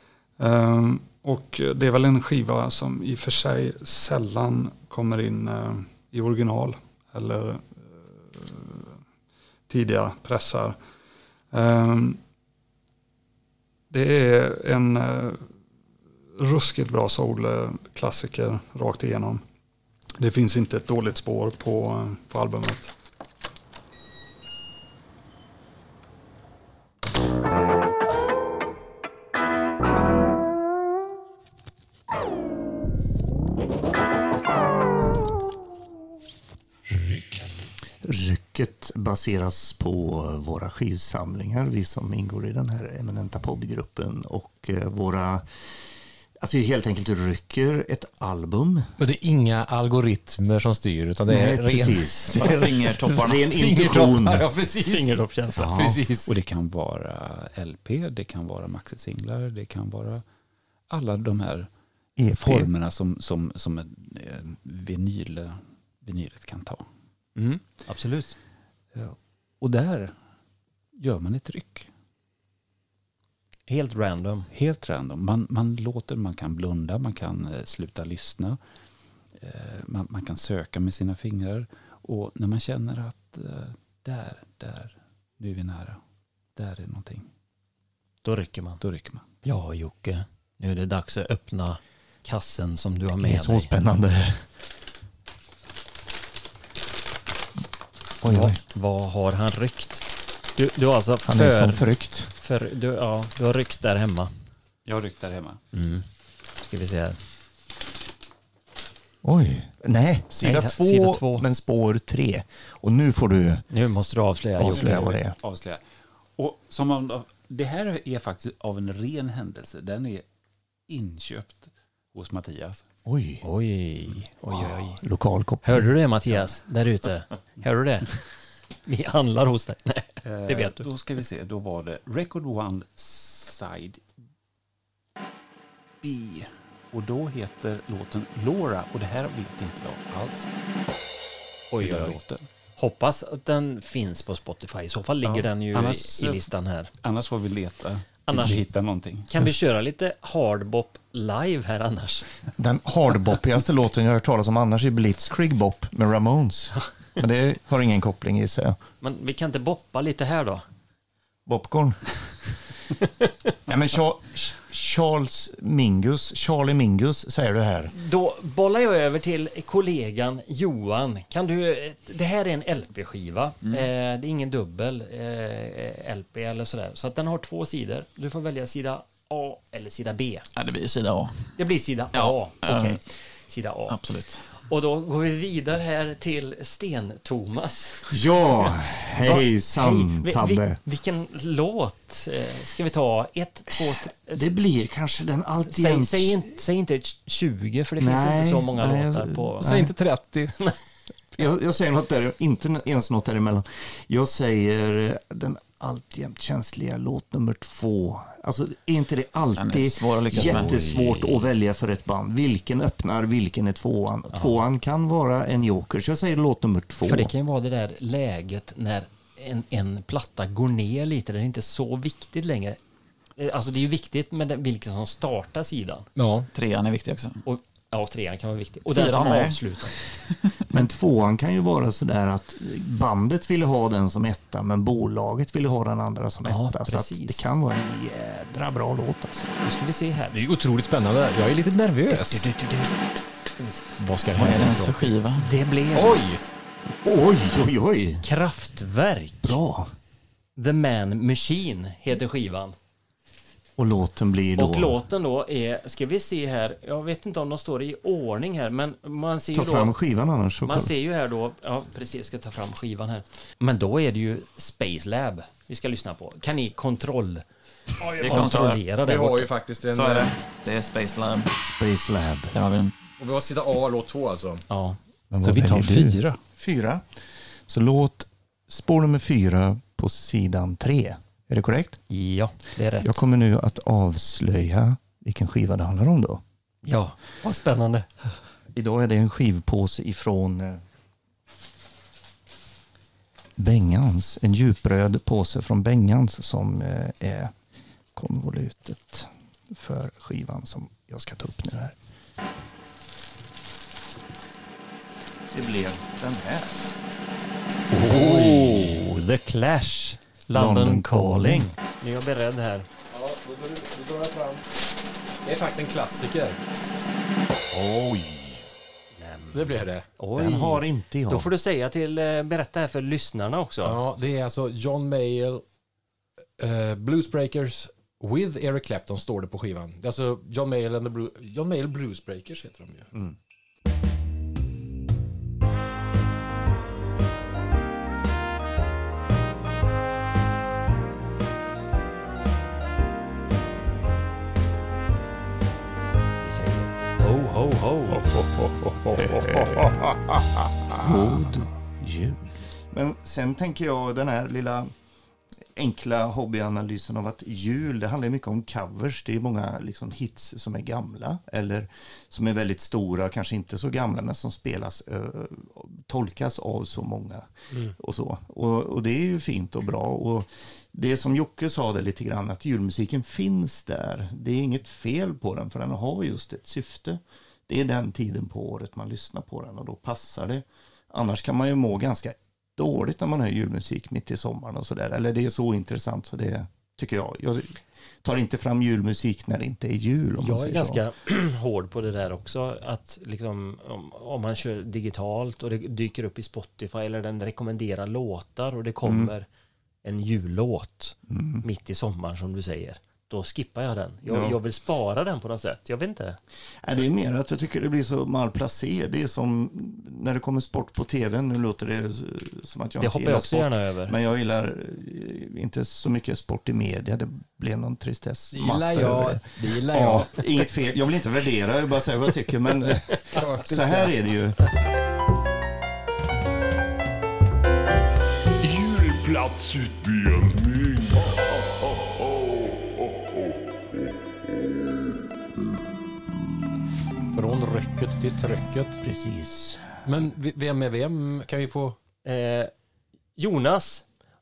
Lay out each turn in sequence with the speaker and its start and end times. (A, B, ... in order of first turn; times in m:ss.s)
0:00.4-0:07.8 A
0:08.3-0:08.8 A
0:09.7-0:10.8 A
0:11.5-0:12.2 A
0:13.9-0:15.5 A
0:16.4-0:19.4 A
0:20.2-0:22.9 A
0:38.0-0:48.9 B
0:49.0-0:56.3 C
0:51.3-0:54.5 B
0:52.3-0:53.4 D
0:54.9-0:55.6 E
0:55.6-0:56.0 B
0:56.3-1:00.3 F
1:00.9-1:01.7 F
1:02.2-1:02.7 B
1:02.4-1:06.9 F
1:07.4-1:08.4 E
1:08.9-1:10.2 F
1:11.0-1:11.9 F
1:13.7-1:14.5 E
1:14.5-1:18.6 F
1:19.4-1:26.0 F
1:26.6-1:27.3 F
1:28.2-1:28.8 E
1:28.8-1:29.2 F
1:29.4-1:33.7 E
1:33.2-1:34.4 B
1:38.2-1:38.6 B
1:38.3-1:44.3 E
1:41.3-1:42.3 B
1:44.8-1:45.6 F
1:45.7-1:46.1 E
1:46.6-1:47.2 E
1:49.2-1:53.6 B
1:50.4-1:51.5 E
1:53.7-1:55.2 E
1:54.6-1:55.4 B
1:54.6-1:55.8 F
1:56.4-2:00.3 F
2:00.9-2:02.8 F
2:03.0-2:03.4 B
2:03.4-2:04.8 E
2:04.5-2:05.9 B
2:04.5-2:05.0 F
2:05.6-2:10.9 E
2:10.2-2:14.0 F
2:16.0-2:20.4 F
2:21.7-2:22.2 E
2:21.8-2:22.4 F
2:22.8-2:26.9 E
2:25.2-2:26.5 F
2:27.0-2:29.5 F
2:28.3-2:28.7 E
2:29.2-2:32.3 E
2:32.6-2:38.8 B
2:39.0-2:40.6 E
2:41.5-2:42.5 B
2:43.7-2:47.9 B
2:47.9-3:00.5 E
3:00.6-3:01.6 D
3:01.6-3:04.0 E
3:02.1-3:03.0 D
3:03.9-3:04.5 D
3:04.5-3:08.2 E
3:08.1-3:10.8 B
3:09.2-3:14.4 E
3:14.3-3:16.6 B
3:15.7-3:20.0 E
3:18.0-3:19.9 B
3:19.6-3:20.5 C
3:21.4-3:37.3 B
3:29.6-3:31.5 D
3:37.0-3:42.8 E
3:43.4-3:46.1 E
3:46.2-3:46.5 C
3:46.5-3:47.4 D
3:47.4-3:50.0 E
3:48.9-3:50.2 D
3:50.7-3:59.5 B
3:56.5-3:57.5 E
3:59.6-4:00.4 E
4:00.3-4:02.5 C
4:02.1-4:03.0 E
4:03.6-4:03.9 E
4:04.0-4:05.0 C
4:04.3-4:05.5 D
4:05.4-4:06.2 E
4:05.9-4:06.4 C
4:06.9-4:08.2 B
4:08.2-4:09.6 E
4:09.4-4:09.9 B
4:10.6-4:12.8 E
4:13.8-4:15.0 B
4:14.6-4:19.9 E
4:19.5-4:20.9 B
4:20.6-4:27.5 E
4:28.0-4:29.5 E
4:28.2-4:28.8 D
4:28.2-4:30.3 C
4:29.9-4:31.6 D
4:31.7-4:32.5 B
4:32.5-4:32.9 D
4:33.2-4:34.6 C
4:34.7-4:35.0 E
4:35.3-4:42.0 B
4:35.4-4:36.3 F
4:35.6-4:36.2 C
4:42.1-4:43.2 E
4:43.0-4:46.4 B
4:46.8-4:48.1 E
4:48.7-4:50.8 B
4:53.6-4:57.5 B
4:58.2-5:02.0 B
5:05.5-5:06.8 B
5:07.9-5:12.9 E
5:08.2-5:08.9 C
5:10.5-5:11.7 B
5:13.1-5:14.6 C
5:15.4-5:16.6 C
5:17.7-5:18.6 B
5:19.1-5:24.0 E
5:19.5-5:20.1 C
5:20.4-5:21.5 B
5:23.8-5:25.6 C
5:26.6-5:33.1 C
5:46.4-5:48.3 E
5:49.2-5:50.0 B
5:51.0-5:54.9 B
5:55.7-6:31.0 B
6:30.4-6:39.5 E
6:39.0-6:39.3 B
6:40.0-6:46.4 E
6:41.3-6:41.6 B
6:44.3-6:44.6 B
6:46.8-7:04.6 B
6:53.0-6:54.2 E
6:58.5-7:00.6 C
7:03.3-7:04.1 C
7:08.6-7:11.2 G
7:17.3-7:19.0 C
7:19.0-7:20.1 B
7:20.0-7:22.0 C
7:22.2-7:22.7 E
7:23.4-7:24.0 E